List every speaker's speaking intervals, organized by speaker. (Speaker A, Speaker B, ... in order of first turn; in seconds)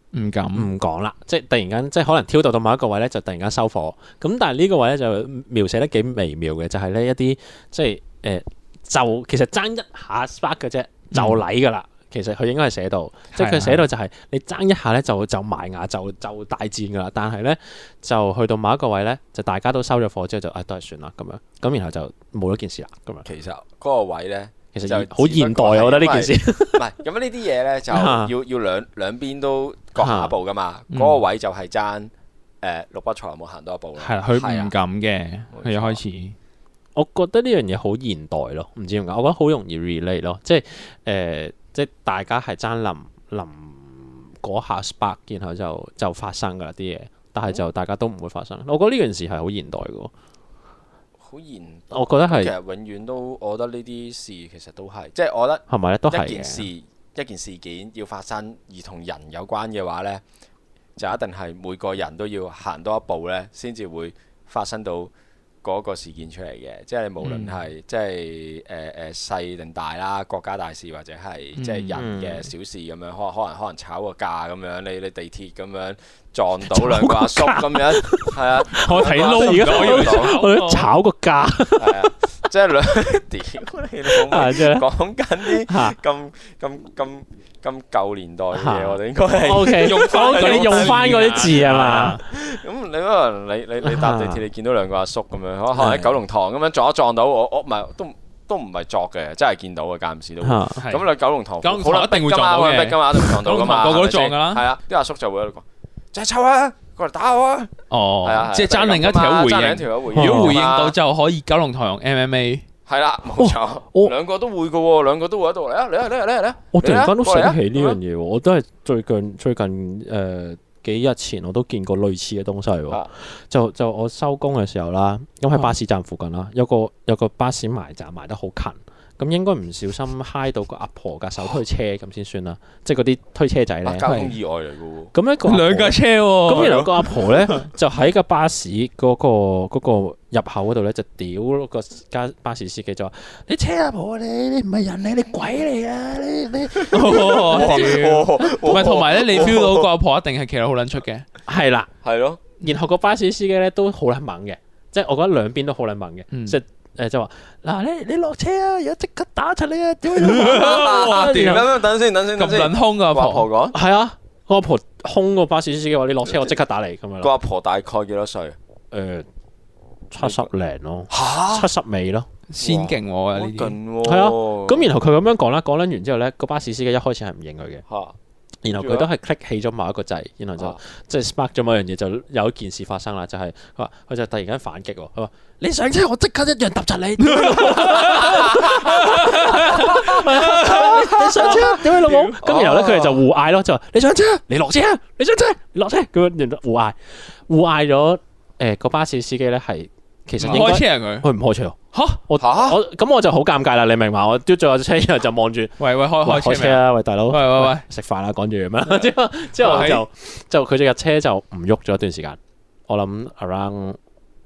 Speaker A: 0.1-0.7, 11.1-11.4, 13.3-13.8, 30.9-31.2, 34.0-36.3, 67.2-67.5, 71.5-72.0, 78.8-80.9, 89.7-92.2, 100.8-101.1, 101.6-104.7, 107.9-112.6, 134.0-134.3, 135.4-137.5, 146.9-151.2, 156.3-156.6, 160.2-161.7, 162.3-163.5, 172.5-173.8, 187.2-192.3, 200.4-201.3, 201.9-202.2, 205.8-207.9, 208.9-210.0
Speaker B: 0.5-23.2, 24.7-26.9, 27.9-28.3, 30.0-30.3, 37.0-50.1, 51.9-52.5, 55.7-56.6, 72.0-72.4, 76.7-82.1, 84.1-84.8, 85.5-86.0, 88.5-92.2, 93.8-94.4, 95.7-96.1, 100.4-100.8, 110.1-110.6, 113.3-114.1, 116.7-134.1, 135.1-148.1, 151.5-151.9, 152.6-161.6, 163.7-167.3, 168.9-169.3, 170.1-172.3, 174.0-177.8, 178.6-214.0
Speaker C: 23.2-34.7, 35.5-36.0, 51.2-60.2, 61.0-65.1, 65.6-80.4, 81.7-111.0, 112.9-118.0, 133.8-135.1, 136.5-136.8, 146.8-149.9, 152.0-152.4, 160.2-163.8, 166.2-166.6, 167.2-168.6, 170.2-170.5, 171.1-171.7, 172.6-174.9, 177.9-178.2, 178.7-179.1, 188.0-189.0, 189.7-190.0, 190.6-191.8, 192.4-193.2, 202.4-202.8